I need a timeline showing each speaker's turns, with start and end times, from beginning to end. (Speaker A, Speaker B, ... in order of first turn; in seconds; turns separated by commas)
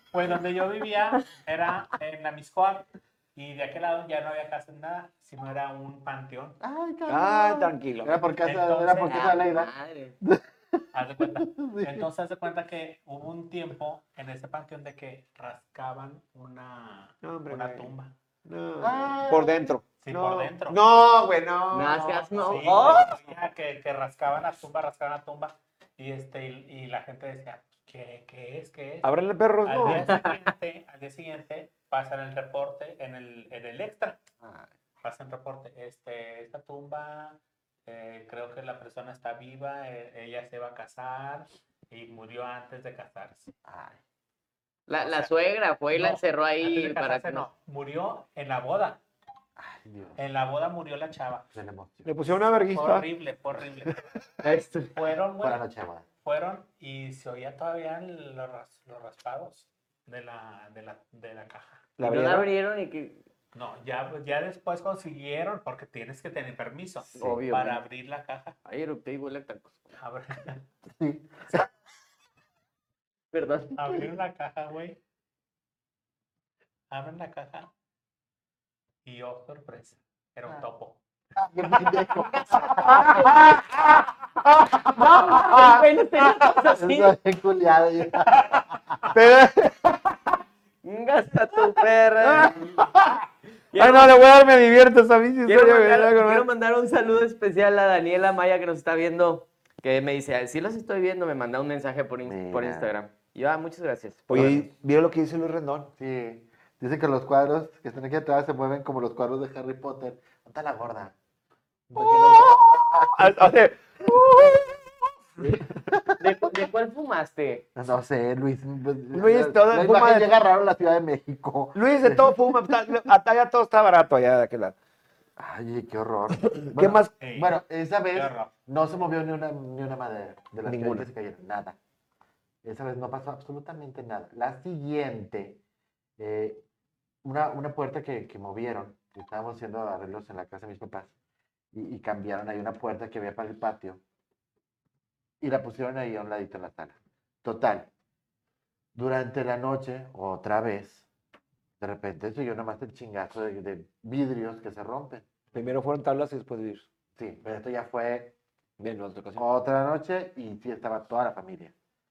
Speaker A: 0.1-6.6, Speaker B: 6.6-12.1, Speaker C: 7.1-8.2, Speaker A: 8.4-9.3, Speaker D: 9.0-10.2, Speaker A: 10.9-18.1, Speaker C: 17.2-17.9, Speaker C: 18.4-23.1, Speaker B: 18.8-19.8, Speaker A: 20.0-20.8, Speaker D: 21.7-23.1, Speaker A: 21.9-29.1, Speaker C: 29.0-30.1, Speaker A: 29.6-34.2, Speaker D: 29.9-30.5, Speaker B: 34.4-34.7, Speaker A: 35.0-43.5, Speaker B: 43.7-44.0, Speaker D: 44.9-47.5, Speaker A: 45.0-45.3, Speaker A: 45.9-49.0, Speaker B: 49.6-50.2, Speaker A: 50.2-51.5, Speaker B: 51.5-52.2, Speaker C: 52.0-53.1, Speaker A: 52.7-54.2, Speaker D: 54.4-55.0, Speaker A: 54.9-55.6, Speaker B: 55.4-56.1, Speaker A: 56.2-61.8, Speaker C: 62.0-62.5, Speaker D: 62.0-63.2, Speaker A: 63.5-68.5, Speaker D: 67.1-67.8, Speaker D: 68.7-69.8, Speaker A: 70.0-70.6, Speaker B: 70.9-71.6, Speaker D: 73.3-74.0, Speaker A: 73.8-75.0, Speaker A: 76.9-77.7, Speaker A: 79.0-81.0, Speaker B: 81.4-83.4, Speaker D: 82.2-83.2, Speaker C: 82.6-86.4, Speaker B: 84.9-85.8, Speaker D: 85.1-87.2, Speaker B: 86.6-88.6, Speaker C: 89.1-90.4, Speaker D: 90.8-92.6, Speaker C: 92.2-93.2, Speaker D: 93.7-94.2, Speaker C: 93.8-96.5, Speaker D: 95.5-104.3, Speaker B: 102.3-102.9, Speaker C: 104.3-105.9, Speaker B: 104.3-104.7, Speaker B: 106.0-111.1, Speaker B: 111.9-113.6, Speaker C: 112.0-115.7, Speaker B: 115.4-116.0, Speaker D: 116.2-117.7, Speaker B: 117.8-122.9, Speaker C: 119.1-120.3, Speaker C: 121.7-124.8, Speaker B: 125.4-131.8, Speaker C: 126.5-127.1, Speaker A: 127.2-127.5, Speaker A: 128.1-128.5, Speaker C: 130.7-131.1, Speaker B: 132.6-135.6, Speaker B: 136.2-136.6, Speaker B: 137.2-141.1, Speaker B: 141.7-144.0, Speaker B: 145.4-147.9, Speaker B: 148.9-151.1, Speaker B: 151.8-155.2, Speaker C: 155.5-156.9, Speaker B: 157.2-158.3, Speaker C: 158.8-159.4, Speaker B: 159.4-161.7